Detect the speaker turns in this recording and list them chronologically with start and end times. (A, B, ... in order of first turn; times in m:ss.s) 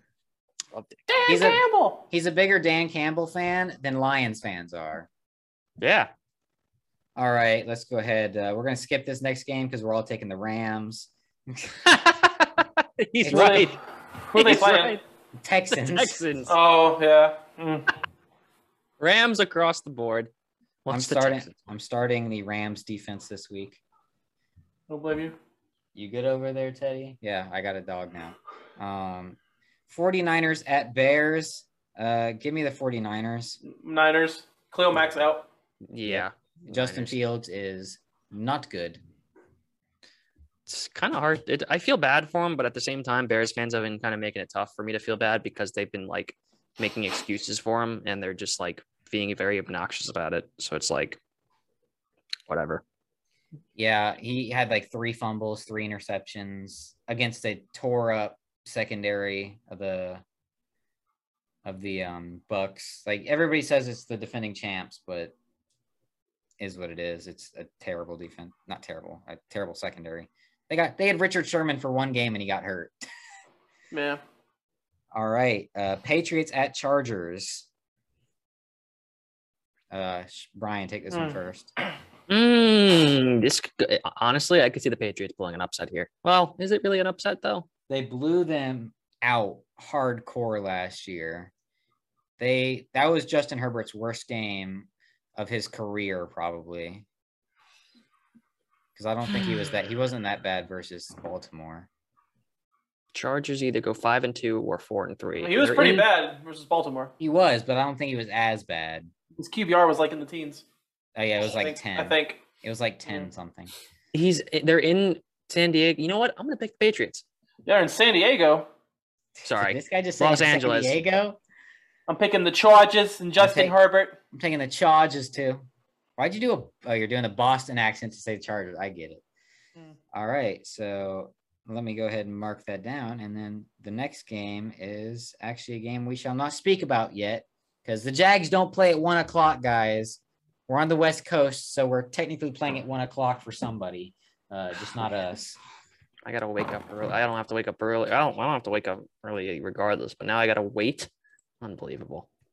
0:00.7-0:01.0 A
0:01.1-0:02.0 B
0:01.2-0:05.1 C
0:05.8-0:06.1 A
0:07.2-0:12.2 C
0:12.4-0:13.8 A
0:13.2-0:13.7 C
0:13.3-0:15.0 B
0:14.4-0:15.0 A
0:15.4-0:16.2 C
0:15.7-0:16.5 A
0:16.5-0:17.9 B
0:19.0-0:20.3 A
0:20.8-0:21.6 A
0:20.9-0:23.8 C
0:24.9-0:25.4 B
0:26.0-0:33.6 C
0:33.6-0:35.5 B
0:35.9-0:37.2 A
0:36.1-0:39.0 C
0:40.7-0:51.2 A
0:52.5-0:52.8 A
0:53.8-1:00.2 C
1:01.6-1:05.3 C
1:06.6-1:13.0 C
1:13.9-1:14.2 B
1:15.1-1:17.7 C
1:19.9-1:21.7 C
1:21.1-1:21.4 B
1:22.3-1:27.7 A
1:27.9-1:31.5 C
1:32.4-1:37.0 C
1:39.0-1:41.9 C
1:43.1-1:46.1 A
1:45.4-1:47.1 B
1:47.2-1:49.1 C
1:49.4-1:50.6 B
1:51.2-1:53.7 C
1:51.4-1:52.4 B
1:54.1-1:57.2 A
1:57.7-1:58.7 B
1:59.4-2:01.4 C
1:59.4-2:01.0 A
2:02.1-2:04.2 B
2:03.4-2:03.8 C
2:04.3-2:05.7 C
2:06.2-2:09.2 C
2:10.1-2:25.6 C
2:26.3-2:31.1 A
2:31.6-2:32.3 A